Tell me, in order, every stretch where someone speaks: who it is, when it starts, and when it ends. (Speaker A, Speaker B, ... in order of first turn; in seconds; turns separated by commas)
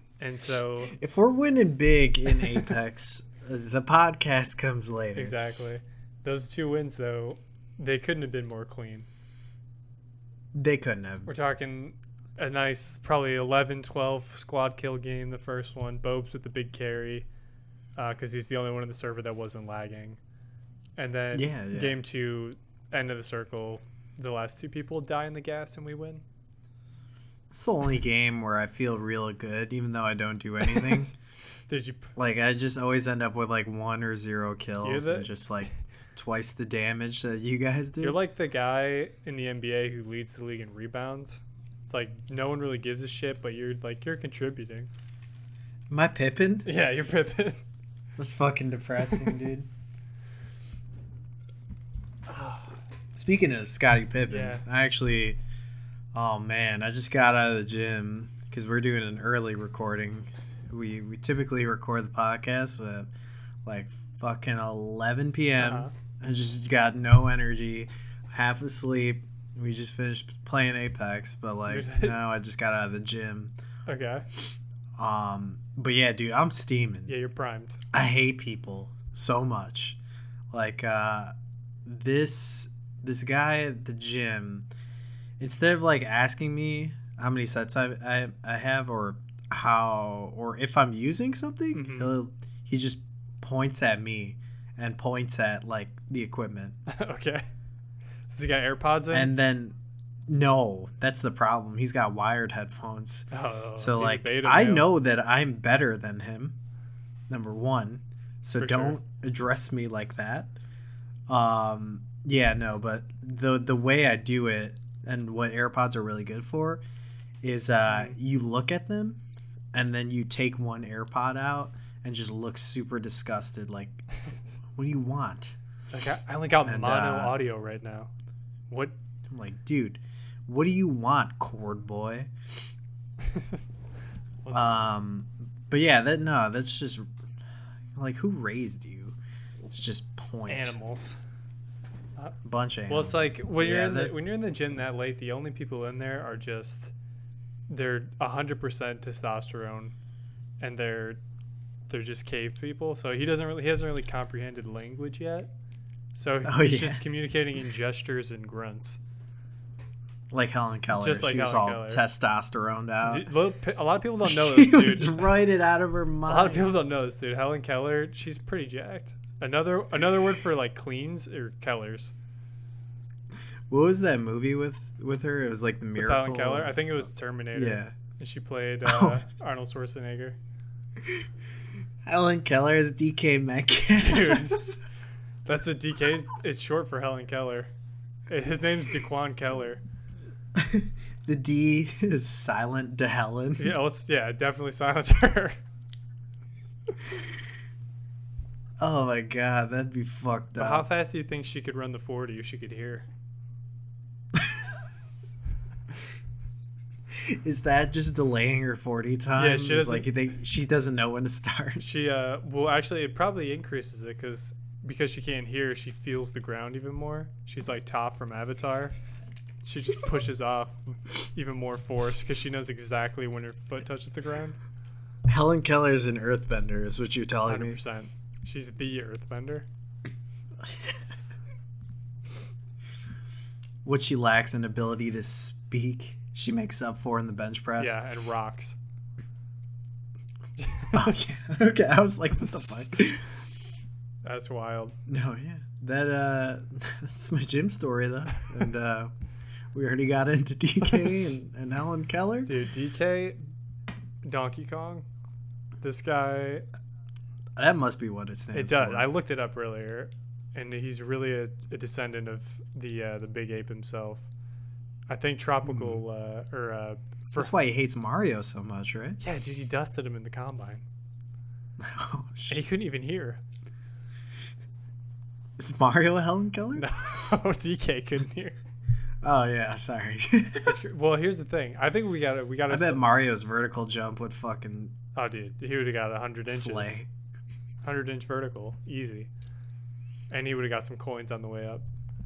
Speaker A: 0.2-1.0, Speaker B: 0.9-5.3, Speaker A: 5.1-9.1, Speaker B: 10.5-11.3, Speaker A: 11.2-17.2, Speaker A: 17.9-20.2, Speaker A: 21.0-26.2, Speaker B: 21.3-22.0, Speaker B: 27.5-31.1, Speaker A: 31.7-32.1, Speaker B: 32.1-38.2, Speaker A: 34.8-35.3, Speaker A: 38.0-44.9, Speaker B: 45.9-46.7, Speaker A: 46.6-47.6, Speaker B: 48.2-49.7, Speaker A: 52.3-52.8, Speaker B: 53.1-55.4, Speaker A: 54.3-54.6, Speaker B: 56.1-63.1, Speaker B: 63.6-73.5, Speaker A: 65.6-65.9, Speaker A: 71.7-72.2, Speaker A: 73.9-74.2, Speaker B: 75.0-77.1, Speaker A: 77.1-77.8, Speaker B: 77.9-80.0, Speaker B: 80.5-81.3, Speaker B: 81.8-84.7, Speaker B: 85.4-96.8, Speaker A: 91.7-92.1, Speaker A: 96.9-97.5, Speaker A: 98.3-99.3, Speaker B: 99.1-106.5, Speaker A: 103.3-104.9, Speaker B: 107.3-110.5, Speaker A: 108.6-109.0, Speaker B: 111.3-116.8, Speaker B: 117.4-119.2, Speaker A: 117.9-118.2, Speaker B: 119.7-124.0, Speaker B: 124.8-125.5, Speaker A: 125.9-128.1, Speaker B: 126.6-127.4, Speaker A: 128.7-128.9, Speaker B: 129.3-132.3, Speaker A: 133.3-133.6, Speaker A: 134.4-134.8, Speaker B: 134.5-137.1, Speaker B: 137.9-139.2, Speaker B: 139.7-140.7, Speaker A: 140.5-141.2, Speaker B: 142.4-144.2, Speaker A: 142.9-146.9, Speaker A: 147.7-149.9, Speaker A: 150.6-151.2, Speaker A: 151.9-155.5, Speaker A: 156.1-159.0, Speaker B: 156.4-157.0, Speaker B: 160.3-163.3, Speaker A: 160.9-162.0, Speaker A: 163.0-165.3, Speaker B: 164.2-166.7, Speaker A: 166.2-172.1, Speaker B: 173.7-177.9, Speaker A: 176.0-180.4, Speaker B: 178.8-179.2, Speaker B: 182.0-184.7, Speaker A: 184.0-184.7, Speaker A: 185.4-187.7, Speaker A: 188.3-189.8, Speaker B: 190.5-193.7, Speaker A: 193.6-195.6, Speaker B: 198.8-200.8, Speaker A: 200.6-203.1, Speaker B: 207.2-211.8, Speaker A: 209.3-210.1, Speaker A: 211.8-218.9, Speaker A: 219.6-224.6, Speaker B: 225.3-227.8, Speaker A: 227.4-229.7, Speaker B: 233.8-238.0, Speaker A: 237.8-238.8, Speaker A: 240.6-241.4, Speaker B: 240.9-243.3, Speaker A: 242.3-242.9, Speaker A: 244.2-244.9, Speaker B: 245.1-249.1, Speaker B: 249.7-252.5, Speaker A: 250.8-251.4, Speaker A: 252.4-253.4, Speaker A: 254.2-255.0, Speaker A: 255.8-256.6, Speaker B: 257.6-259.1, Speaker A: 258.5-264.3, Speaker A: 265.1-267.5, Speaker B: 265.6-266.0, Speaker B: 267.4-269.2, Speaker A: 269.2-270.8, Speaker B: 271.8-272.6, Speaker A: 272.5-273.4, Speaker B: 275.6-276.9, Speaker A: 276.7-278.6, Speaker B: 279.2-280.8, Speaker A: 280.6-283.0, Speaker B: 282.7-284.9, Speaker A: 285.1-287.0, Speaker B: 286.5-287.1, Speaker A: 287.8-289.3, Speaker A: 290.3-291.8